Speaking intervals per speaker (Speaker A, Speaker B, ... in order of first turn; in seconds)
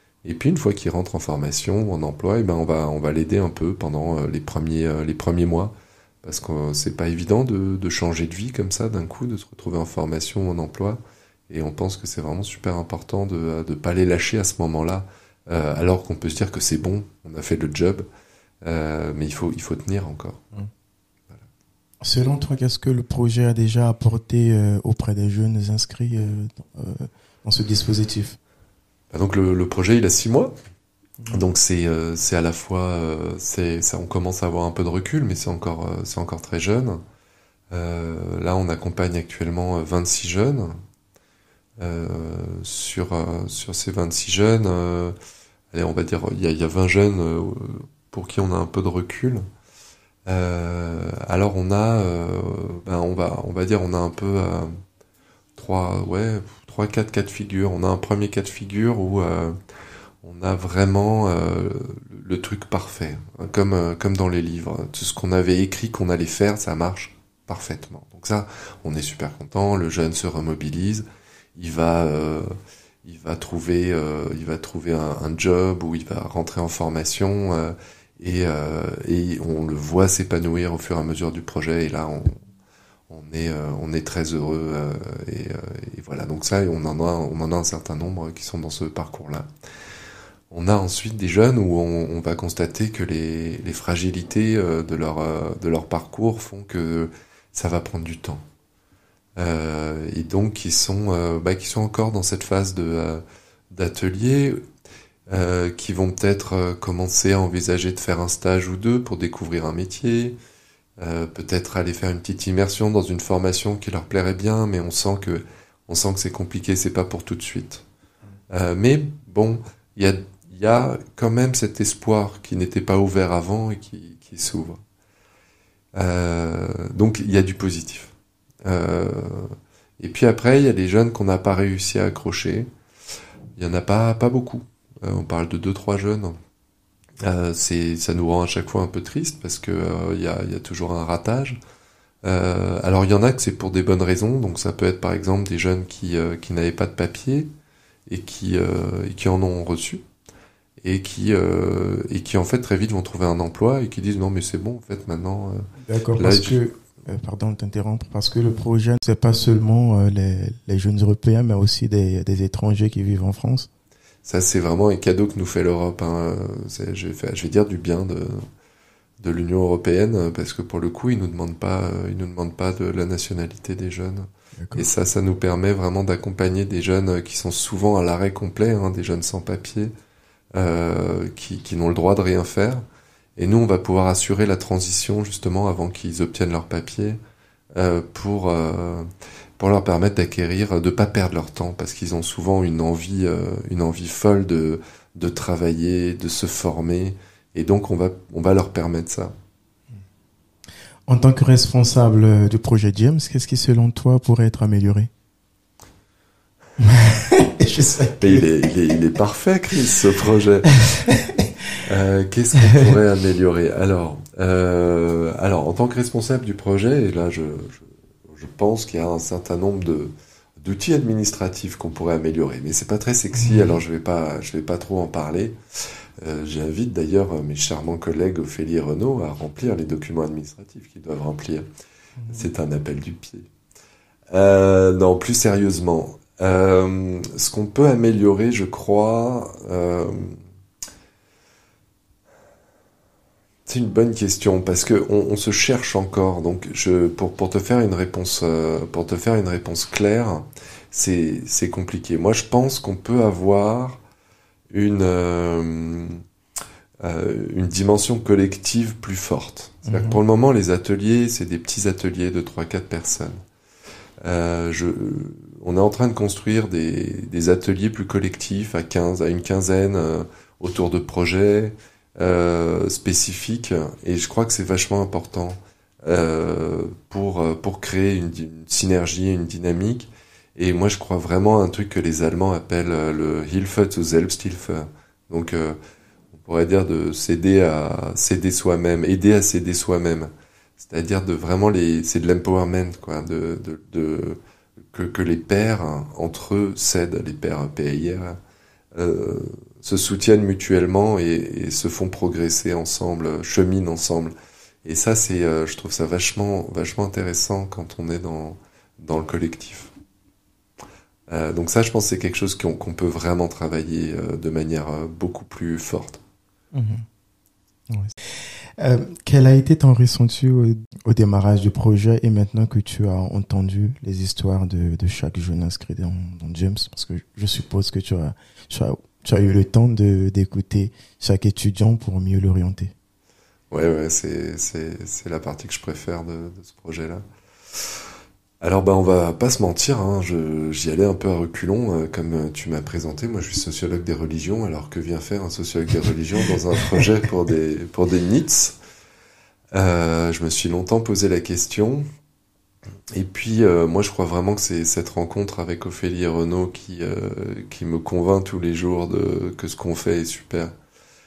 Speaker A: 0.2-18.1, 18.6-20.4, 29.1-30.5, 31.3-37.0, 37.7-40.8, 41.8-45.2, 45.7-49.4, 50.3-54.7, 55.6-59.6, 60.2-71.0, 71.6-72.5, 73.0-82.4, 83.1-89.5, 90.5-98.4, 99.4-104.6, 105.3-110.3, 111.0-117.8, 118.5-124.8, 126.0-132.7, 133.6-136.4, 137.2-141.6, 142.2-147.5, 148.1-150.0, 150.8-156.6, 164.2-168.5, 169.2-179.9, 180.5-182.8, 183.4-187.2, 187.8-189.1, 189.6-199.3, 208.2-210.8, 211.8-231.7, 232.3-233.5, 234.3-240.4, 243.7-254.0, 254.7-256.2, 257.0-263.4, 264.2-285.8, 286.3-298.4, 298.9-304.3, 304.9-309.9, 311.3-316.2, 333.7-338.0, 338.6-348.8, 349.7-352.1, 353.1-360.8
Speaker B: 22.0-28.4, 155.8-163.7, 174.6-174.9, 201.1-205.1, 206.8-208.5, 210.9-211.4, 212.7-212.9, 232.2-232.5, 259.9-260.2, 316.7-317.1, 318.8-332.9